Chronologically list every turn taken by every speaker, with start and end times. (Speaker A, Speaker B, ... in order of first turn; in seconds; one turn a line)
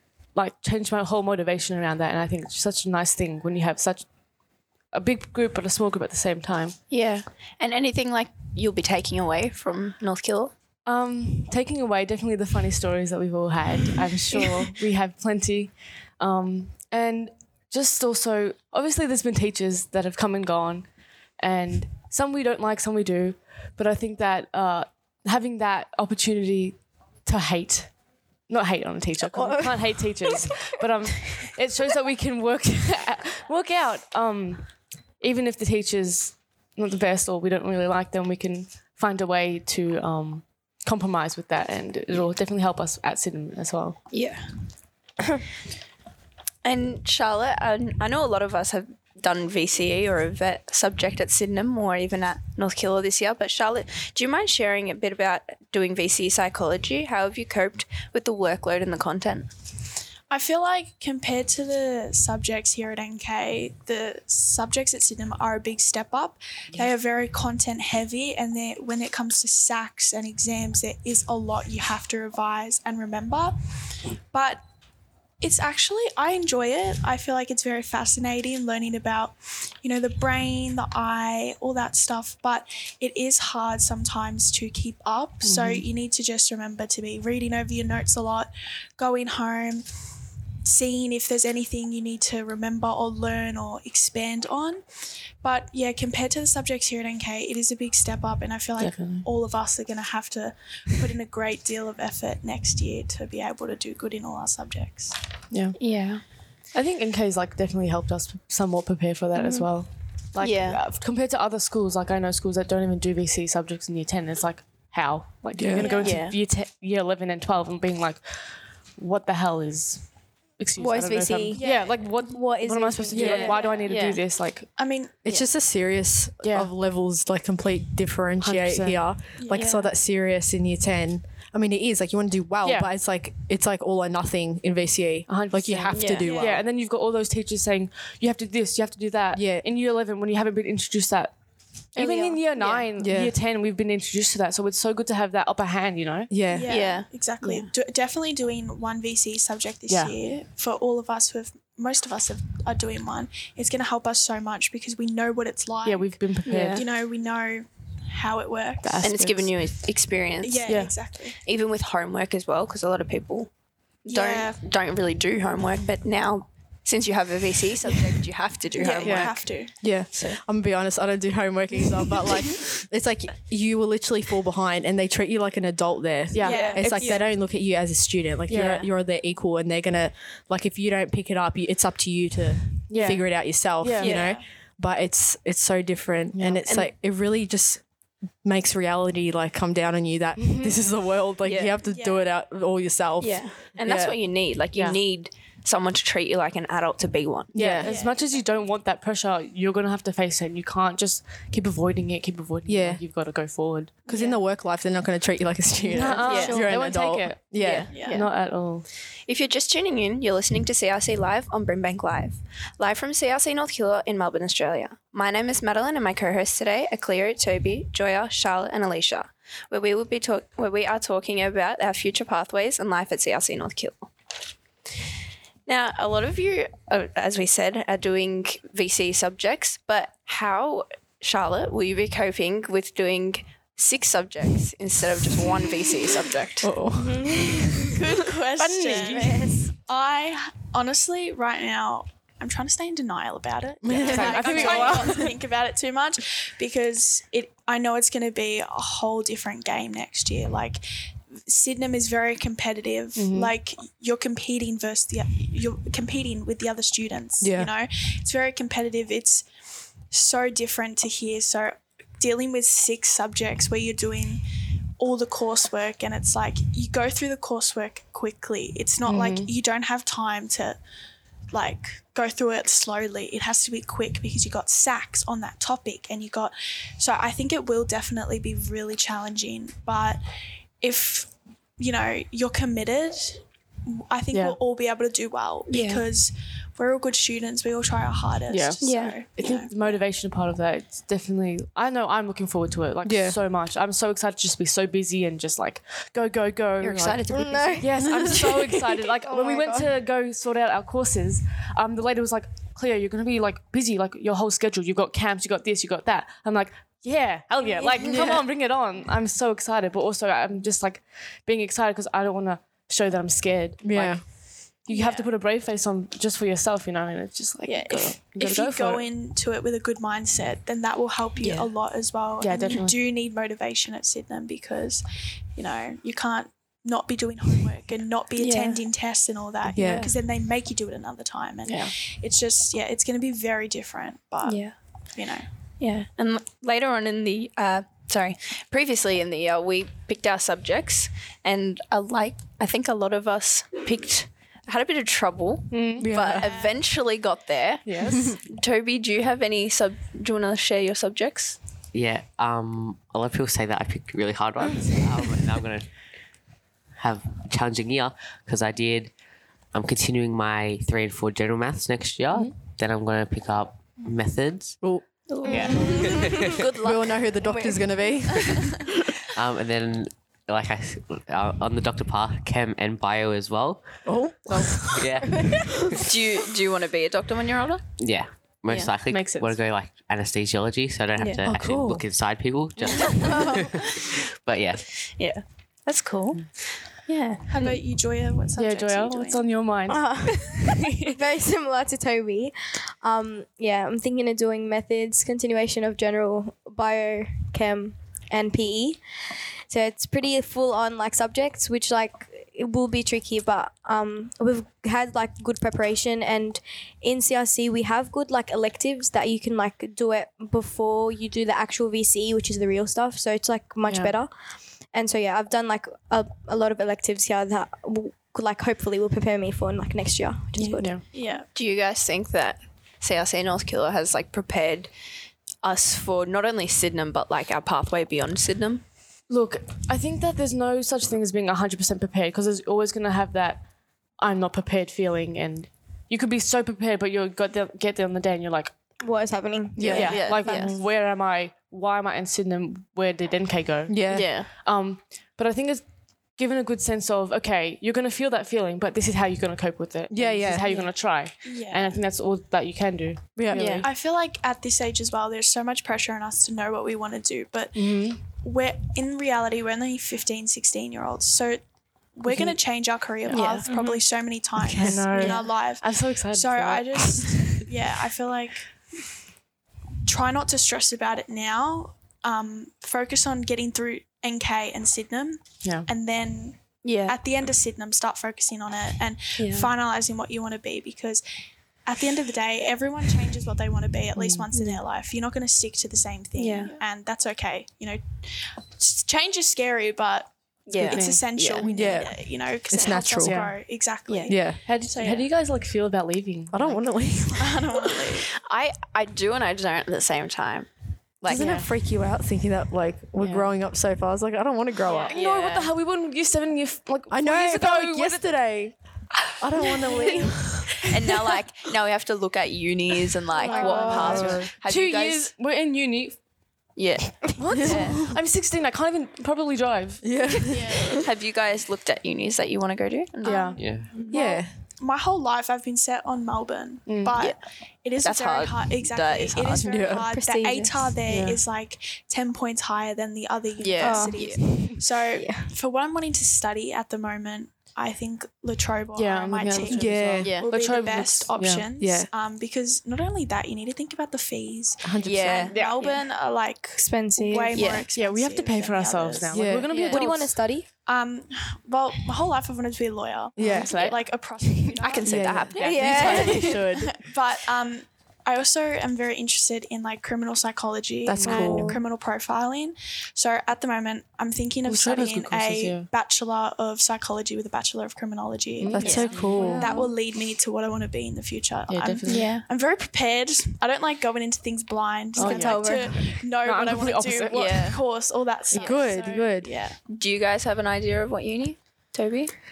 Speaker A: 0.3-4.1
Speaker A: 4.9-6.8
Speaker B: 6.9-10.5
Speaker A: 10.9-20.9
Speaker A: 21.4-27.9
Speaker A: 28.5-44.0
Speaker C: 29.3-30.4
Speaker B: 44.1-44.5
Speaker B: 46.6-59.5
Speaker D: 60.3-73.6
Speaker D: 74.3-74.6
Speaker D: 75.4-90.0
Speaker A: 85.4-85.8
Speaker D: 90.6-105.2
Speaker A: 98.8-99.3
Speaker A: 105.5-105.9
Speaker B: 105.8-106.2
Speaker A: 106.7-124.7
Speaker B: 109.4-109.7
Speaker B: 110.4-110.8
Speaker E: 115.6-116.0
Speaker D: 115.8-116.2
Speaker B: 115.9-116.4
Speaker C: 120.8-123.5
Speaker D: 121.5-122.2
Speaker E: 123.1-123.5
Speaker D: 123.2-123.9
Speaker B: 123.2-124.2
Speaker D: 124.8-125.3
Speaker E: 125.2-136.6
Speaker A: 126.4-126.7
Speaker A: 128.4-129.1
Speaker D: 129.4-129.8
Speaker B: 129.5-129.9
Speaker A: 132.6-132.9
Speaker A: 135.3-141.3
Speaker B: 135.9-136.3
Speaker D: 136.2-136.6
Speaker E: 139.3-139.7
Speaker A: 141.9-146.3
Speaker B: 142.0-142.9
Speaker E: 143.0-143.4
Speaker E: 146.3-146.7
Speaker D: 146.5-159.1
Speaker B: 146.7-147.7
Speaker A: 149.9-150.2
Speaker A: 155.8-156.9
Speaker B: 156.5-156.9
Speaker A: 158.8-159.6
Speaker B: 159.0-160.7
Speaker D: 160.4-161.4
Speaker A: 160.7-161.0
Speaker B: 161.4-163.5
Speaker B: 164.1-169.5
Speaker D: 164.1-164.6
Speaker D: 168.8-169.8
Speaker A: 169.0-169.4
Speaker E: 169.8-187.8
Speaker B: 170.1-170.4
Speaker A: 176.3-177.0
Speaker D: 176.4-177.3
Speaker B: 176.4-177.2
Speaker A: 178.5-178.9
Speaker A: 182.9-184.2
Speaker D: 184.0-184.4
Speaker A: 186.3-186.7
Speaker E: 188.4-194.2
Speaker A: 190.4-190.8
Speaker B: 191.4-191.8
Speaker D: 191.8-192.3
Speaker B: 193.2-197.5
Speaker E: 197.5-197.9
Speaker A: 197.6-204.1
Speaker D: 197.8-198.4
Speaker E: 202.7-203.0
Speaker E: 204.1-207.9
Speaker A: 205.8-208.9
Speaker B: 206.2-206.6
Speaker C: 206.2-206.8
Speaker D: 207.9-208.2
Speaker B: 207.9-208.3
Speaker B: 209.3-224.1
Speaker B: 225.7-236.7
Speaker E: 236.6-237.4
Speaker C: 236.9-238.0
Speaker D: 237.9-259.5
Speaker A: 238.6-239.4
Speaker C: 238.8-239.7
Speaker E: 243.8-245.1
Speaker A: 244.0-245.3
Speaker A: 253.2-253.5
Speaker E: 257.4-257.7
Speaker D: 260.0-264.4
Speaker D: 265.0-270.8
Speaker A: 269.1-269.5
Speaker D: 271.5-280.2
Speaker D: 280.8-290.0
Speaker A: 284.3-284.6
Speaker B: 285.7-286.0
Speaker A: 288.5-297.2
Speaker B: 288.8-289.2
Speaker E: 293.0-293.4
Speaker B: 296.8-298.4
Speaker C: 297.3-298.4
Speaker A: 297.8-319.1
Speaker C: 299.2-299.9
Speaker E: 308.0-308.5
Speaker E: 313.8-314.2
Speaker D: 314.9-315.3
Speaker D: 317.7-325.0
Speaker A: 322.4-323.0
Speaker D: 325.6-335.5
Speaker B: 328.4-328.8
Speaker E: 329.7-330.1
Speaker B: 329.8-330.1
Speaker A: 331.6-331.9
Speaker B: 334.4-334.7
Speaker B: 335.8-351.6
Speaker A: 345.7-346.1
Speaker E: 346.0-346.5
Speaker D: 346.2-346.8
Speaker A: 347.9-348.3
Speaker F: 351.9-355.9
Speaker F: 357.0-359.1
Speaker F: 359.7-364.8
Speaker E: 364.8-366.0
Speaker B: 365.3-367.3
Speaker C: 365.4-366.5
Speaker F: 365.5-366.6
Speaker E: 366.7-369.0
Speaker C: 367.4-368.2
Speaker F: 369.3-373.8
Speaker E: 374.1-376.0
Speaker F: 374.9-376.0
Speaker C: 375.3-375.6
Speaker B: 376.0-377.9
Speaker F: 378.0-384.9
Speaker A: 379.1-379.6
Speaker E: 381.4-382.1
Speaker B: 383.2-383.6
Speaker B: 385.0-386.6
Speaker B: 387.1-387.7
Speaker D: 387.5-389.5
Speaker A: 388.6-391.1
Speaker C: 389.9-399.0
Speaker C: 399.7-414.3
Speaker A: 413.9-414.1
Speaker C: 414.9-421.0
Speaker A: 420.6-421.0
Speaker D: 421.1-421.5
Speaker B: 421.5-424.9
Speaker B: 425.6-428.8
Speaker A: 429.3-433.6
Speaker A: 434.2-438.7
Speaker C: 439.0-440.7
Speaker E: 439.8-440.2
Speaker A: 439.9-445.8
Speaker B: 439.9-440.8
Speaker E: 443.9-444.3
Speaker B: 444.1-444.5
Speaker A: 446.4-453.9
Speaker E: 450.1-450.7
Speaker D: 451.4-452.0
Speaker E: 453.4-453.8
Speaker B: 453.5-453.9
Speaker D: 453.8-461.6
Speaker A: 457.7-458.2
Speaker D: 462.1-468.7
Speaker B: 463.3-463.7
Speaker A: 463.3-464.0
Speaker E: 464.6-465.1
Speaker A: 464.8-467.7
Speaker D: 470.1-481.2
Speaker B: 476.8-477.2
Speaker B: 479.4-479.7
Speaker D: 481.9-495.3
Speaker A: 484.2-484.4
Speaker B: 486.4-486.7
Speaker B: 490.7-491.6
Speaker A: 490.8-491.6
Speaker E: 491.6-493.5
Speaker A: 493.2-493.6
Speaker B: 494.1-494.3
Speaker E: 494.3-494.6
Speaker A: 494.4-496.8
Speaker E: 496.5-497.6
Speaker D: 497.3-498.3
Speaker B: 498.0-500.7
Speaker B: 501.2-501.5
Speaker E: 501.2-505.1
Speaker A: 501.3-501.7
Speaker A: 503.2-503.5
Speaker B: 504.9-505.6
Speaker D: 504.9-505.2
Speaker A: 505.1-508.4
Speaker E: 507.1-508.8
Speaker E: 509.3-510.8
Speaker B: 510.9-515.3
Speaker C: 513.4-514.4
Speaker D: 513.5-514.0
Speaker A: 513.6-516.2
Speaker E: 513.9-514.5
Speaker B: 516.8-518.0
Speaker A: 517.4-520.1
Speaker E: 517.6-518.1
Speaker E: 520.0-521.0
Speaker D: 520.5-521.0
Speaker B: 521.0-524.1
Speaker A: 523.2-523.8
Speaker D: 523.3-549.4
Speaker F: 523.6-523.9
Speaker E: 524.1-524.5
Speaker A: 526.9-527.2
Speaker B: 528.0-529.7
Speaker E: 529.6-530.1
Speaker C: 530.1-531.0
Speaker A: 531.1-531.4
Speaker B: 533.6-534.4
Speaker C: 533.8-535.5
Speaker A: 539.0-541.7
Speaker E: 539.7-540.4
Speaker B: 540.2-540.5
Speaker E: 541.8-542.1
Speaker E: 544.8-545.5
Speaker B: 545.0-545.6
Speaker A: 545.5-546.0
Speaker C: 546.8-547.8
Speaker B: 547.5-547.9
Speaker A: 547.9-550.4
Speaker E: 549.3-549.7
Speaker B: 549.7-550.0
Speaker C: 549.8-550.7
Speaker D: 550.9-579.8
Speaker E: 553.4-553.7
Speaker A: 553.4-554.6
Speaker B: 554.8-556.6
Speaker E: 555.0-557.0
Speaker C: 555.6-556.7
Speaker E: 561.0-561.8
Speaker A: 561.1-561.7
Speaker C: 561.3-561.8
Speaker A: 564.7-565.9
Speaker A: 568.6-569.8
Speaker E: 568.7-569.6
Speaker B: 568.8-569.8
Speaker C: 569.4-569.9
Speaker A: 571.7-572.3
Speaker B: 572.1-572.5
Speaker A: 575.2-577.7
Speaker C: 575.2-576.0
Speaker B: 577.3-577.8
Speaker A: 578.5-578.9
Speaker E: 578.6-579.5
Speaker B: 579.9-582.3